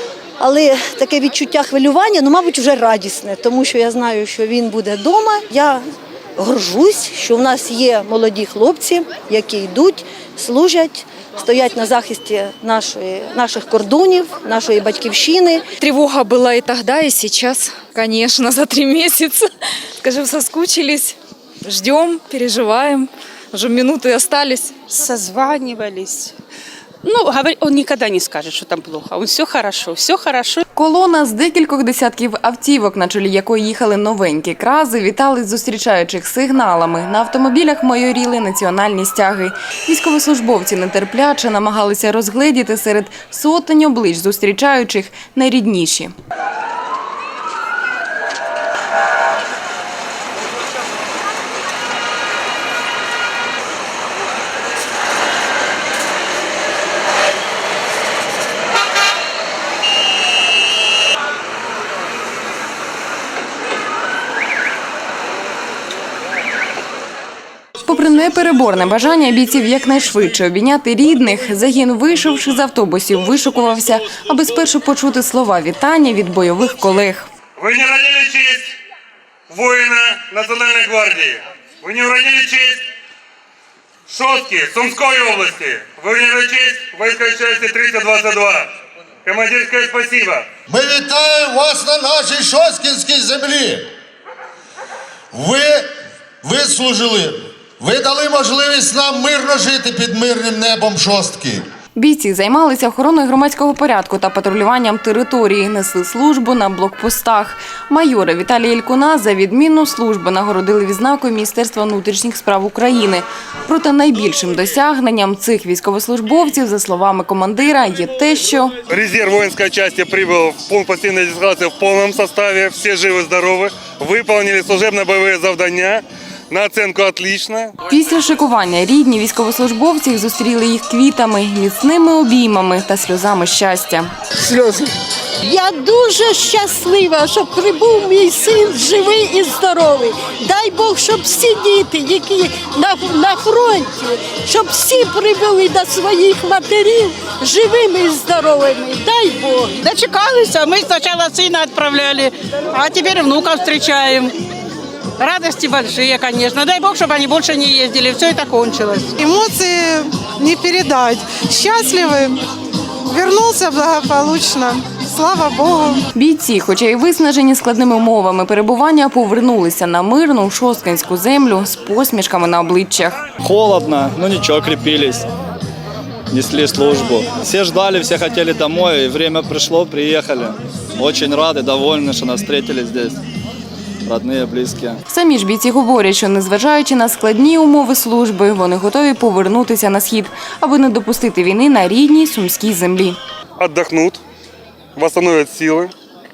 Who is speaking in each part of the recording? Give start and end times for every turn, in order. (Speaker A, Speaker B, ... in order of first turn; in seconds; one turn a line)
Speaker A: 0.4-5.8
Speaker A: 6.4-15.6
Speaker B: 15.8-24.7
Speaker C: 24.9-26.3
Speaker C: 27.0-30.6
Speaker D: 30.7-46.1
Speaker D: 67.8-77.3
Speaker E: 77.6-78.7
Speaker E: 79.5-82.8
Speaker E: 84.1-88.7
Speaker E: 89.2-90.5
Speaker F: 90.7-93.9
Speaker F: 95.3-95.9
Speaker F: 96.4-101.7
Speaker D: 102.0-118.8
Speaker E: 118.8-127.7
Speaker D: 127.9-134.1
Speaker G: 135.4-149.7
Speaker H: 149.8-154.3
Speaker H: 155.2-159.2
Speaker I: 159.2-162.4
Speaker I: 163.1-166.0
Speaker D: 166.1-173.2
Speaker J: 173.4-175.3
Speaker J: 176.3-183.2
Speaker J: 184.0-185.0
Speaker D: 185.1-193.2
Speaker E: 193.6-194.2
Speaker E: 194.9-195.9